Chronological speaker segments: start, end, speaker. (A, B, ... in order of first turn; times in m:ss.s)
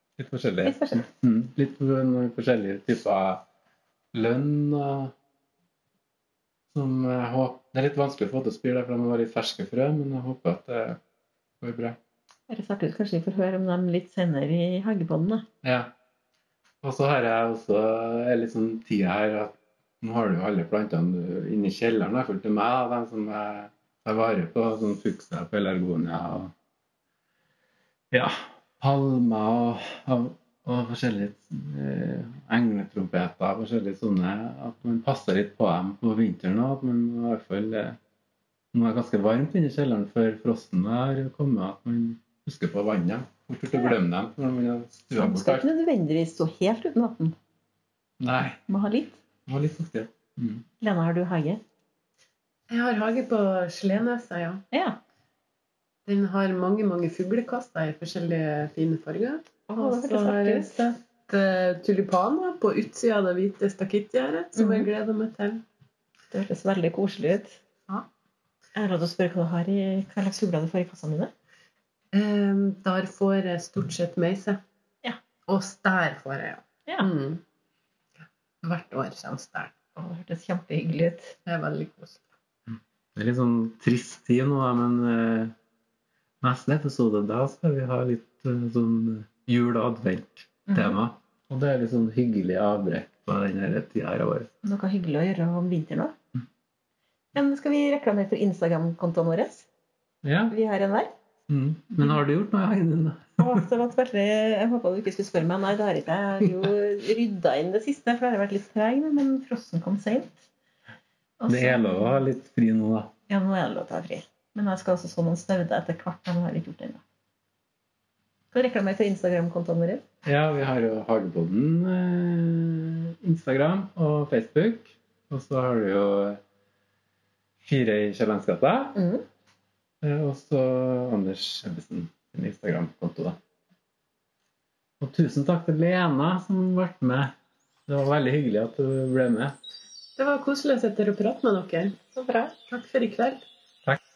0:00.2-0:03.4 A
0:00.6-0:01.0 B
0:04.1-0:05.1 A
0:06.7-0:11.0 A
0:11.6-0:12.0 A
0:12.5-0:15.4 B
0:15.6-0:15.9 A
0:16.8-0:26.5 A
0:28.1-0:38.0 A
0:38.7-0:45.7 A
0:45.2-0:47.4 B
0:48.2-0:48.6 A
0:48.7-0:49.2 B
0:49.4-0:50.6 A
0:50.8-0:51.6 B
0:52.7-0:54.6 C
0:54.7-0:55.0 B
0:56.1-1:05.6 C
0:59.7-1:00.8 B
1:04.6-1:04.9 B
1:06.3-1:07.6 B
1:08.8-1:11.3 B
1:12.1-1:14.6 C
1:15.5-1:17.4 C
1:18.6-1:19.7 C
1:20.0-1:21.4 B
1:21.4-1:22.2 C
1:22.7-1:25.5 A
1:26.4-1:34.5 A
1:30.7-1:31.0 B
1:34.6-1:36.1 B
1:37.3-1:39.7 B
1:40.2-1:40.5 A
1:40.5-1:41.1 B
1:41.5-1:43.6 A
1:43.4-1:50.4 B
1:51.4-1:52.2 B
1:51.5-1:53.1 A
1:53.3-1:57.0 B
1:58.5-2:00.0 B
2:00.2-2:06.4 A
2:07.6-2:09.0 A
2:08.9-2:09.2 B
2:10.0-2:13.4 A
2:15.0-2:17.4 A
2:17.9-2:19.6 A
2:20.2-2:22.0 C
2:22.1-2:22.5 B
2:22.7-2:23.4 C